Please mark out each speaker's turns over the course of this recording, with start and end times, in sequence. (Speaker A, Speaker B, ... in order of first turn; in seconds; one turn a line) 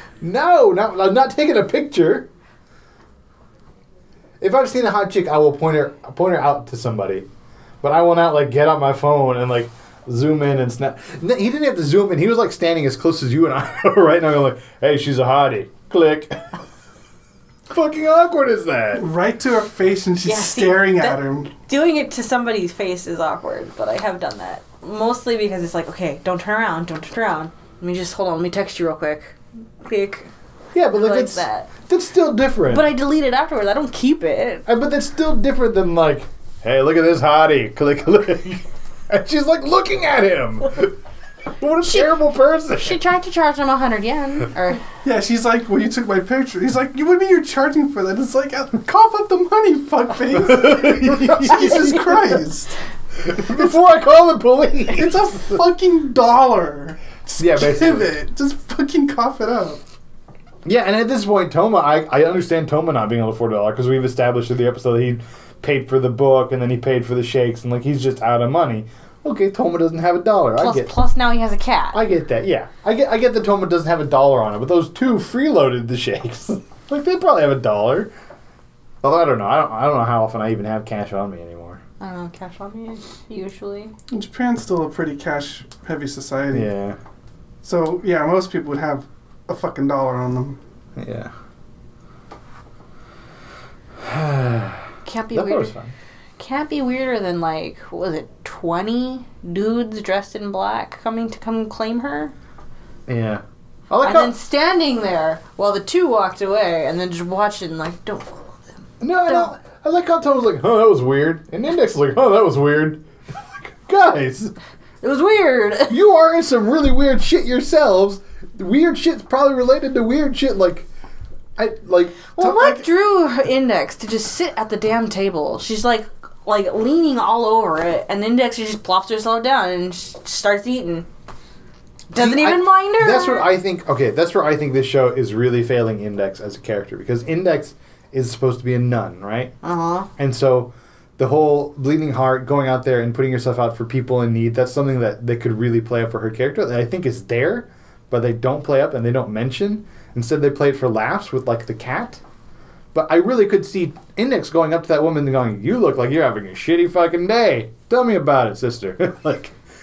Speaker A: 0.2-2.3
Speaker A: 4.4-7.2
Speaker A: 7.8-16.4
Speaker A: 17.7-19.0
Speaker B: 18.9-21.5
Speaker C: 20.2-30.3
Speaker A: 30.7-32.9
Speaker C: 30.9-31.7
Speaker C: 32.7-34.6
Speaker A: 34.6-40.9
Speaker A: 41.6-43.0
Speaker C: 41.8-44.8
Speaker B: 45.0-52.8
Speaker A: 50.3-52.2
Speaker A: 53.2-55.2
Speaker B: 54.9-59.8
Speaker A: 57.4-58.1
Speaker A: 60.6-70.9
Speaker C: 70.6-72.0
Speaker A: 71.9-78.1
Speaker A: 79.0-81.8
Speaker C: 82.0-83.9
Speaker B: 84.1-86.7
Speaker A: 86.5-87.0
Speaker B: 87.6-90.6
Speaker A: 91.0-91.3
Speaker A: 94.0-95.9
Speaker C: 95.0-95.7
Speaker C: 96.4-102.3
Speaker A: 103.1-104.3
Speaker C: 104.0-109.5
Speaker A: 109.0-113.0
Speaker A: 113.6-114.5
Speaker C: 115.0-116.0
Speaker A: 115.9-120.9
Speaker A: 121.6-122.8
Speaker C: 122.3-131.1
Speaker A: 132.1-139.5
Speaker C: 132.1-133.5
Speaker C: 139.6-140.1
Speaker A: 140.2-152.2
Speaker A: 152.9-159.5